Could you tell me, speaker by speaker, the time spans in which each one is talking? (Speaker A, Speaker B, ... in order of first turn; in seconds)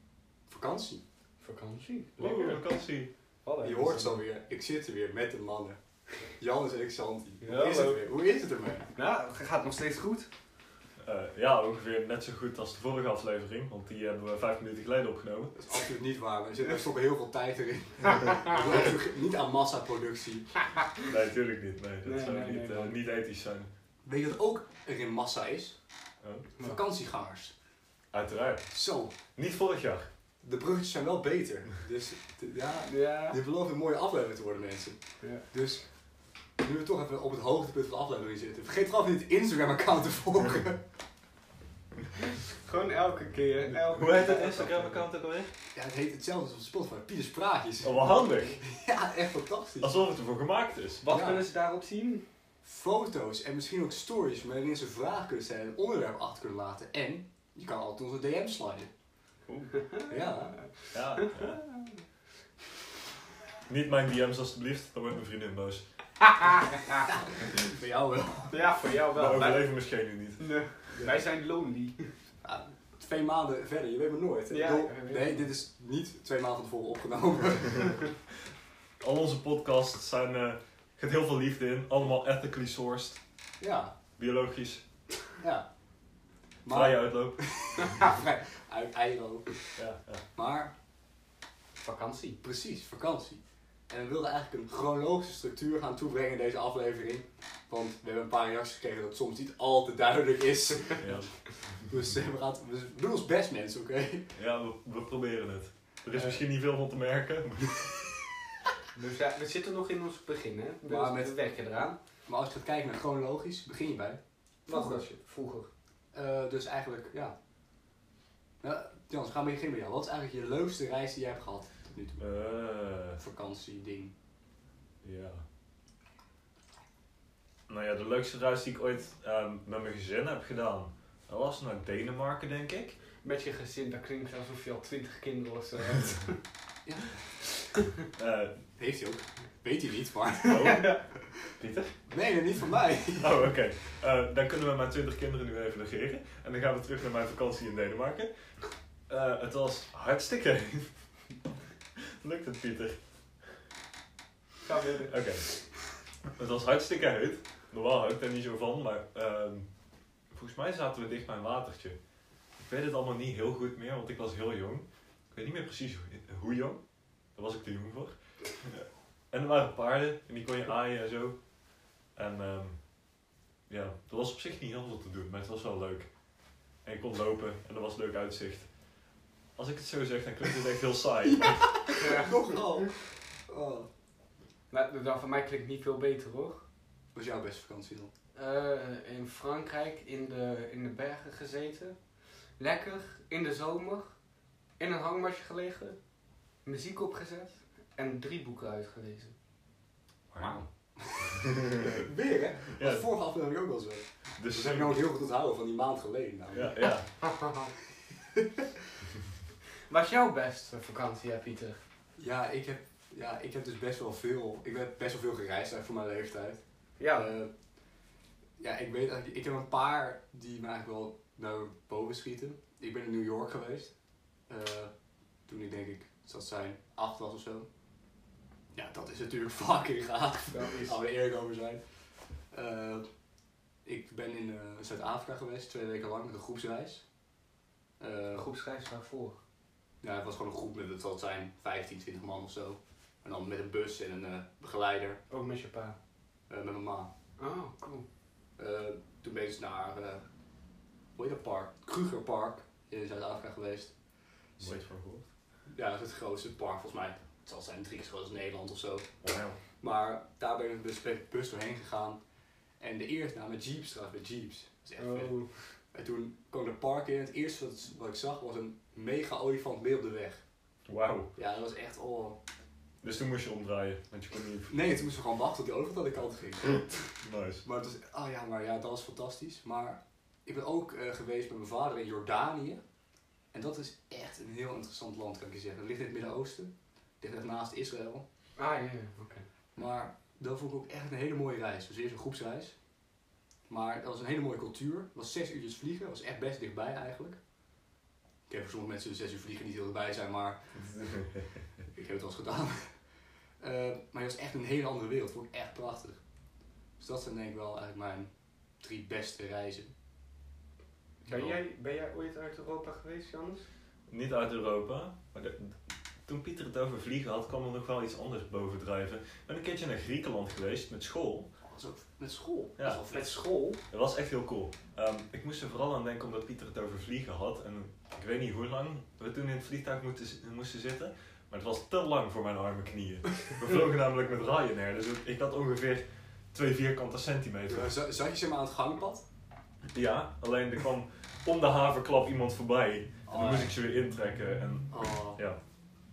Speaker A: 0.5-1.0, 3.6-5.8, 6.3-8.9, 15.6-20.5, 24.0-25.8, 26.6-27.5, 28.7-29.2, 30.4-35.0, 35.5-35.8, 36.6-40.8, 45.7-49.9, 51.0-51.4, 52.6-58.9, 60.1-60.6, 67.0-68.6, 70.9-71.2, 72.4-78.0, 83.6-83.9, 85.4-85.7, 86.6-89.7, 90.3-90.7, 92.4-104.3, 106.1-106.4, 110.8-115.0, 116.1-117.3, 118.6-122.2, 123.2-124.1, 136.8-137.2, 138.8-140.9, 142.1-143.3, 181.4-183.9, 187.1-188.1, 200.3-206.8, 208.1-208.7, 212.2-217.5, 218.6-223.9, 224.5-224.9, 225.5-227.7, 228.7-231.8, 232.5-233.1, 233.8-237.1, 238.0-238.4, 240.0-245.2, 246.5-247.1, 248.6-250.2, 251.2-253.9, 255.7-259.1, 259.8-262.2, 262.8-265.4, 265.9-270.4, 271.4-272.4, 274.7-277.0, 277.6-282.8, 283.5-288.2, 289.7-292.8, 293.7-297.4, 298.5-300.8, 301.9-302.9, 303.6-306.2, 307.0-309.9, 321.6-323.4, 337.7-339.2, 343.3-343.7, 344.9-345.4
Speaker B: 1.4-2.6, 3.4-3.8, 7.4-8.0, 8.9-10.3, 22.0-22.9, 32.9-33.4, 42.6-45.0, 51.0-52.2, 59.5-61.5, 66.4-67.0, 68.5-69.7, 70.4-72.1, 74.5-75.5, 91.8-92.4, 108.9-112.0, 114.7-115.7, 133.2-136.4, 140.6-141.0, 154.6-155.5, 182.0-182.3, 184.7-186.6, 188.3-192.0, 192.6-194.2, 194.8-196.0, 196.6-199.3, 207.2-207.7, 209.9-211.8, 217.0-217.3, 230.5-231.0, 238.3-239.4, 245.3-245.9, 247.4-248.0, 265.0-265.5, 288.6-289.4, 311.2-313.6, 323.1-323.8
Speaker C: 2.2-3.1, 3.6-4.2, 11.0-15.7, 21.1-23.7, 26.2-26.5, 28.1-28.8, 29.3-30.1, 43.7-45.5, 47.8-48.6, 49.8-51.0, 60.9-61.6, 63.6-66.5, 69.1-70.5, 79.0-83.2, 84.2-84.8, 86.7-88.0, 89.7-90.2, 101.0-101.9, 104.3-108.2, 122.2-123.2, 125.0-125.4, 127.7-133.0, 138.1-138.6, 140.5-142.0, 143.1-148.3, 149.1-150.9, 152.0-153.0, 155.1-155.8, 156.3-159.7, 160.3-162.0, 162.6-166.8, 167.3-171.4, 172.1-172.9, 173.7-176.1, 176.8-178.7, 179.6-181.8, 200.3-200.6, 201.6-201.9, 202.7-203.1, 204.4-205.0, 206.5-207.3, 254.6-255.2, 259.2-259.6, 270.9-271.3, 273.0-274.8, 277.2-277.6, 300.7-301.6, 311.2-311.6, 314.1-321.5, 322.8-323.0, 323.9-337.9, 339.9-345.6